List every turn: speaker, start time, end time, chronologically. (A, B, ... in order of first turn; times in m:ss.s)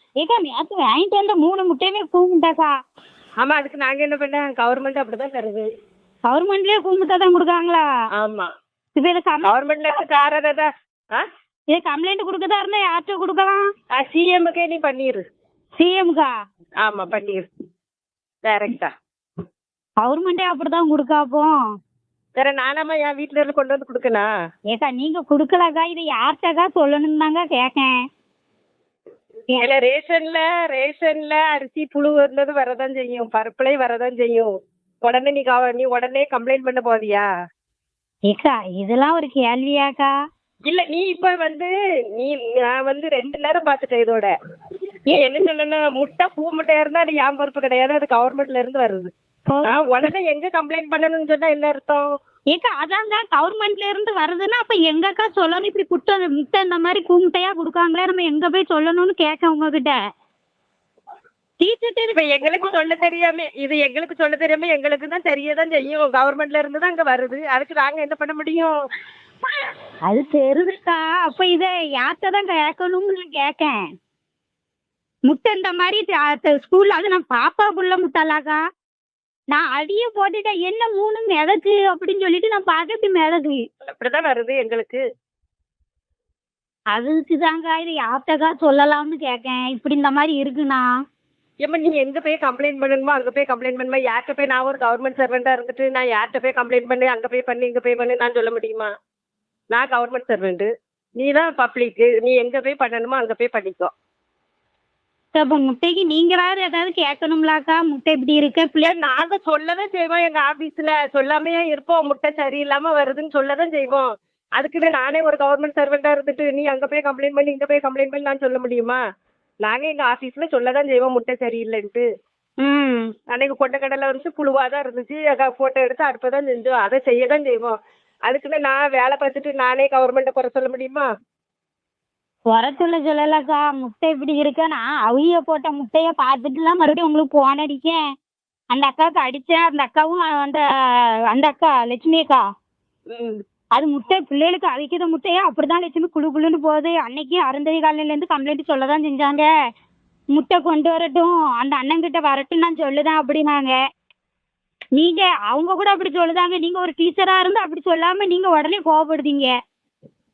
0:00.2-0:02.7 A
0:03.4-0:05.6 B
0:06.3-0:07.8 A
0:08.1-0:08.5 B
0:09.0-0:09.5 A
0:09.4-0:11.2 B
0:11.7-0:13.6 A
0:13.9-0:15.2 B
0:15.8-0:16.3 A
0:16.8-0:17.5 B
0:18.4-0:18.9 B
0:20.0-0:21.6 A
0:22.4-0:24.3 B
0:24.7-0:27.9 A
0:29.6-0:34.5 B
0:35.0-0:37.3 B
0:38.2-0:40.1 A
0:40.7-0:44.3 B
0:45.1-0:49.1 B
0:49.7-0:52.1 B
0:52.5-1:00.0 A
1:01.6-1:02.2 A
1:02.1-1:08.7 B
1:10.1-1:13.8 A
1:15.3-1:18.6 A
1:19.5-1:23.6 A
1:23.9-1:25.0 B
1:26.9-1:30.9 A
1:31.6-1:38.9 B
1:39.7-1:40.7 B
1:41.2-1:43.9 B
1:45.3-1:48.8 A
1:48.8-1:59.0 B
1:59.6-2:02.0 B
2:02.6-2:03.1 A
2:03.3-2:07.8 B
2:08.3-2:11.1 B
2:12.5-2:18.0 A
2:18.7-2:22.4 A
2:23.1-2:23.4 B
2:23.8-2:29.5 A
2:30.3-2:33.8 A
2:35.0-2:39.5 A